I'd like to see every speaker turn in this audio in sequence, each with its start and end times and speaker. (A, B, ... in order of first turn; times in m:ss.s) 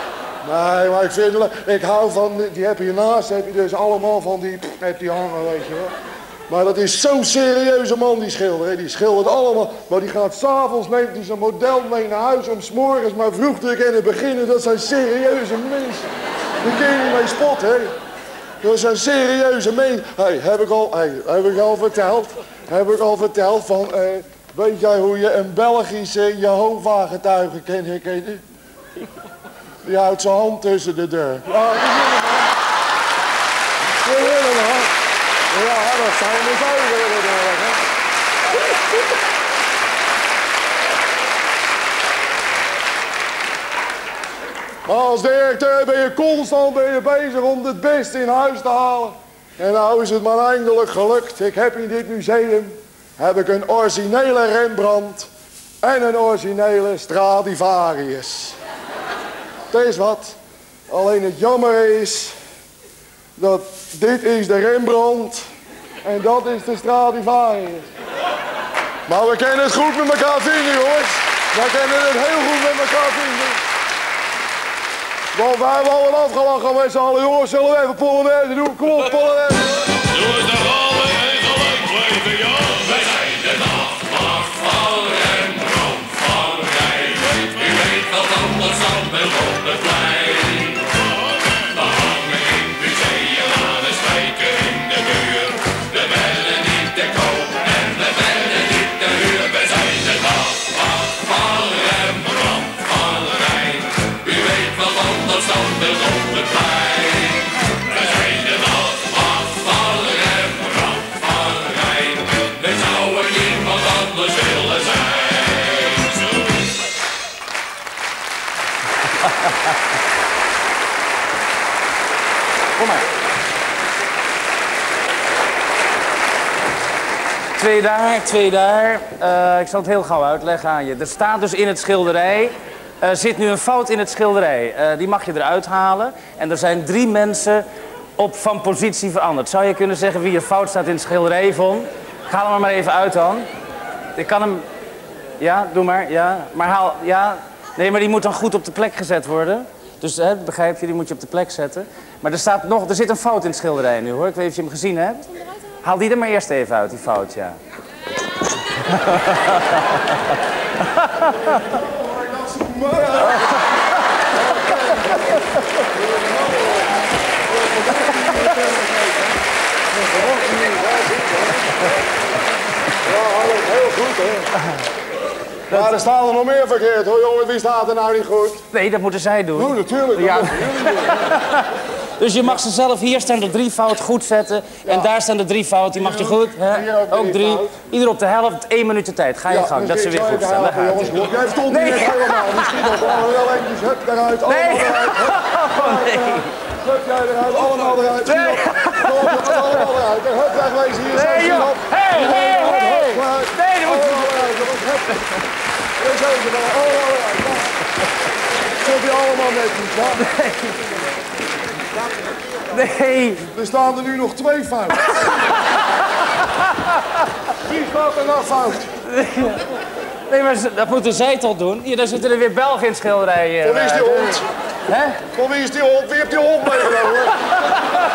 0:00.4-0:05.9 A
0:06.5-0:16.0 A
0:16.6-0:17.9 A
0:18.6-0:28.4 A
0:29.8-0:32.3 A
0:34.0-0:34.9 A
0:35.5-0:37.8 A
0:44.8-0:55.3 A
0:55.8-0:58.6 A
0:59.7-1:00.4 A
1:00.9-1:02.4 A
1:03.4-1:05.4 A
1:06.0-1:07.9 A
1:09.1-1:13.6 A
1:15.3-1:19.8 A
2:07.6-2:17.6 B
2:18.2-2:23.5 B
2:24.2-2:24.6 B
2:25.4-2:35.2 B
2:35.8-2:37.6 B
2:38.9-2:39.9 B
2:41.2-2:41.6 B
2:42.0-2:43.6 A
2:44.4-2:45.4 A
2:45.9-2:46.9 A
2:47.5-2:49.0 A
2:49.9-2:51.9 A
2:53.0-2:54.5 A
2:55.7-2:56.0 B
2:55.7-2:58.6 A
2:58.7-3:01.6 B
2:59.6-3:01.3 A
3:02.2-3:13.0 B
3:05.9-3:07.7 A
3:09.5-3:25.2 A
3:14.5-3:16.5 B
3:18.2-3:19.8 B
3:21.1-3:24.5 B
3:26.0-3:27.7 A
3:28.8-3:30.2 A
3:30.2-3:30.7 B
3:32.7-3:33.4 B
3:33.5-3:35.2 A
3:37.6-3:38.9 A
3:39.1-3:39.6 B
3:40.3-3:45.2 B
3:43.6-3:44.4 A
3:45.3-3:47.8 A